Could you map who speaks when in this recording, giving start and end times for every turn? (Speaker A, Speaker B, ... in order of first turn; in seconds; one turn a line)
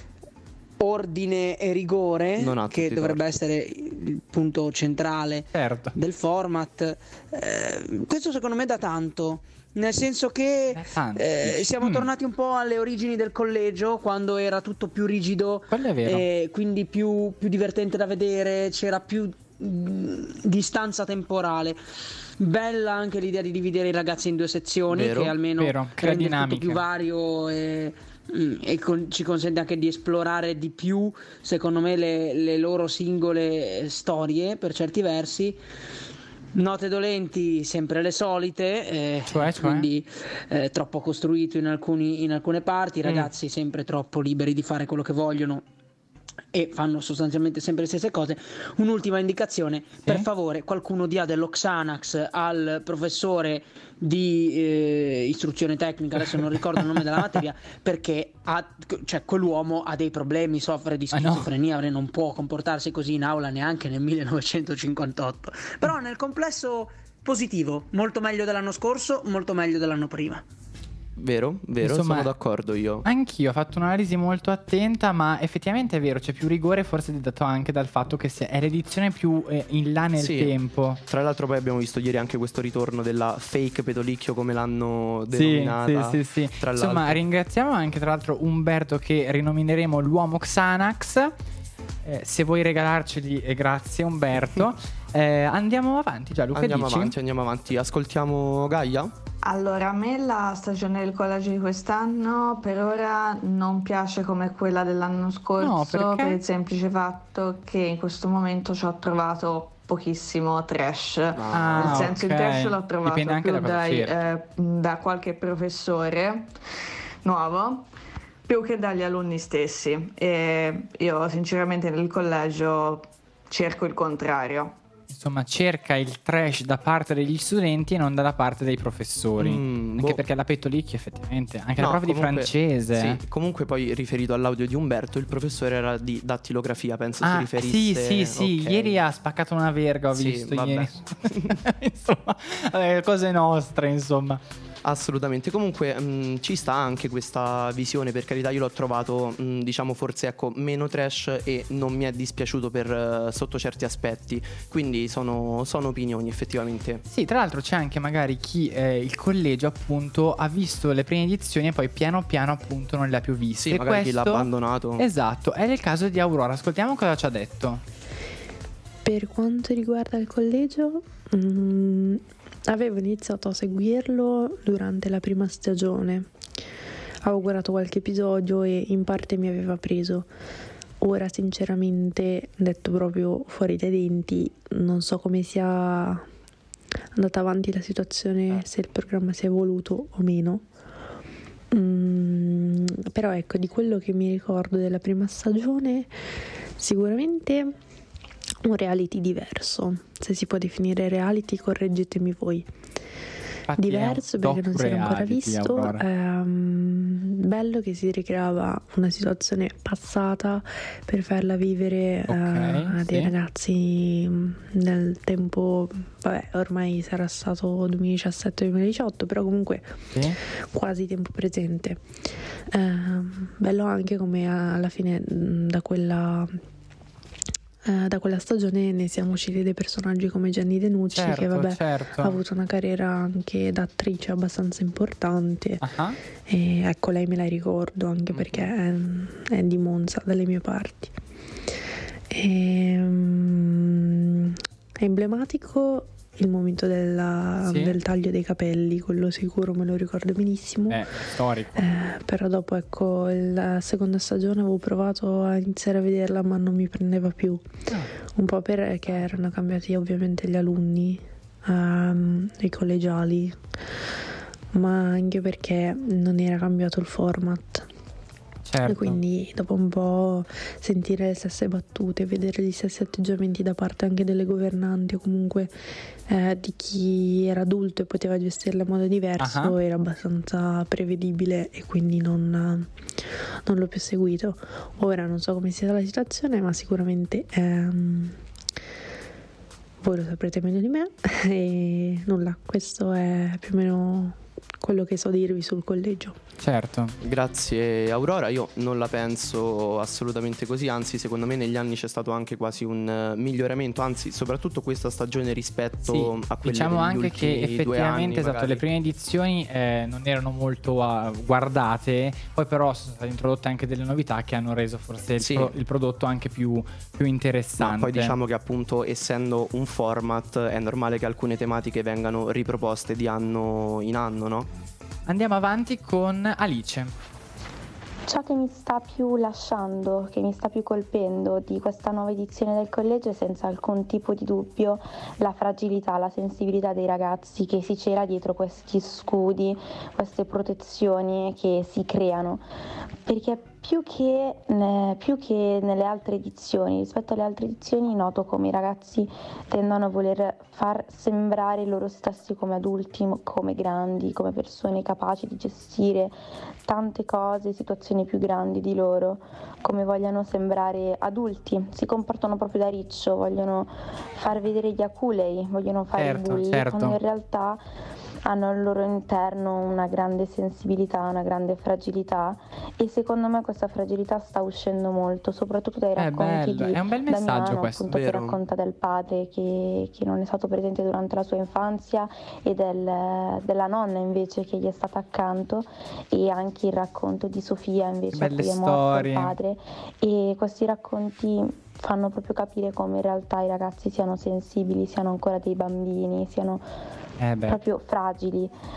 Speaker A: 0.8-21.8
Speaker B: 2.4-3.2
Speaker C: 5.5-5.9
Speaker C: 10.7-12.1
Speaker C: 15.7-16.2
Speaker A: 22.4-35.6
Speaker B: 24.9-25.4
Speaker C: 25.6-26.8
Speaker A: 36.5-45.6
Speaker C: 39.3-39.9
Speaker A: 46.5-70.4
Speaker C: 61.1-61.5
Speaker B: 71.2-73.0
Speaker C: 71.8-72.3
Speaker C: 73.0-81.0
Speaker B: 80.2-87.2
Speaker C: 85.3-91.3
Speaker C: 92.0-97.1
Speaker B: 96.5-99.1
Speaker D: 99.4-116.5
Speaker C: 105.6-106.4
Speaker B: 111.3-112.1
Speaker C: 111.5-114.1
Speaker D: 117.2-117.9
Speaker D: 118.5-124.8
Speaker C: 125.1-133.2
Speaker B: 129.4-130.3
Speaker B: 131.8-139.0
Speaker C: 137.2-144.4
Speaker B: 140.1-141.6
Speaker B: 144.8-157.0
Speaker C: 157.1-167.8
Speaker B: 163.6-165.0
Speaker E: 169.0-176.3
Speaker E: 177.2-180.3
Speaker E: 181.0-186.3
Speaker E: 187.1-190.7
Speaker E: 191.7-196.1
Speaker E: 196.8-197.8
Speaker E: 198.6-202.7
Speaker C: 203.7-206.0
Speaker E: 203.8-222.0
Speaker C: 212.3-213.3
Speaker E: 222.7-226.6
Speaker E: 227.8-235.9
Speaker C: 231.1-232.4
Speaker C: 235.8-236.2
Speaker E: 236.4-241.2
Speaker C: 238.3-238.7
Speaker E: 242.3-251.2
Speaker C: 247.6-248.0
Speaker C: 250.9-252.0
Speaker E: 251.7-257.7
Speaker E: 258.3-263.6
Speaker E: 264.7-267.9
Speaker C: 268.6-269.2
Speaker E: 268.8-282.9
Speaker C: 279.4-279.8
Speaker E: 283.6-288.4
Speaker E: 290.0-296.4
Speaker C: 296.6-297.1
Speaker B: 297.2-308.8
Speaker C: 306.1-318.4
Speaker B: 315.4-315.7
Speaker B: 317.8-324.7
Speaker C: 325.3-327.1
Speaker F: 328.3-342.6
Speaker F: 343.2-367.8
Speaker C: 366.1-367.2
Speaker F: 368.4-396.9
Speaker C: 376.1-378.1
Speaker B: 378.1-378.6
Speaker C: 388.3-389.5
Speaker C: 397.4-397.8
Speaker F: 397.6-398.7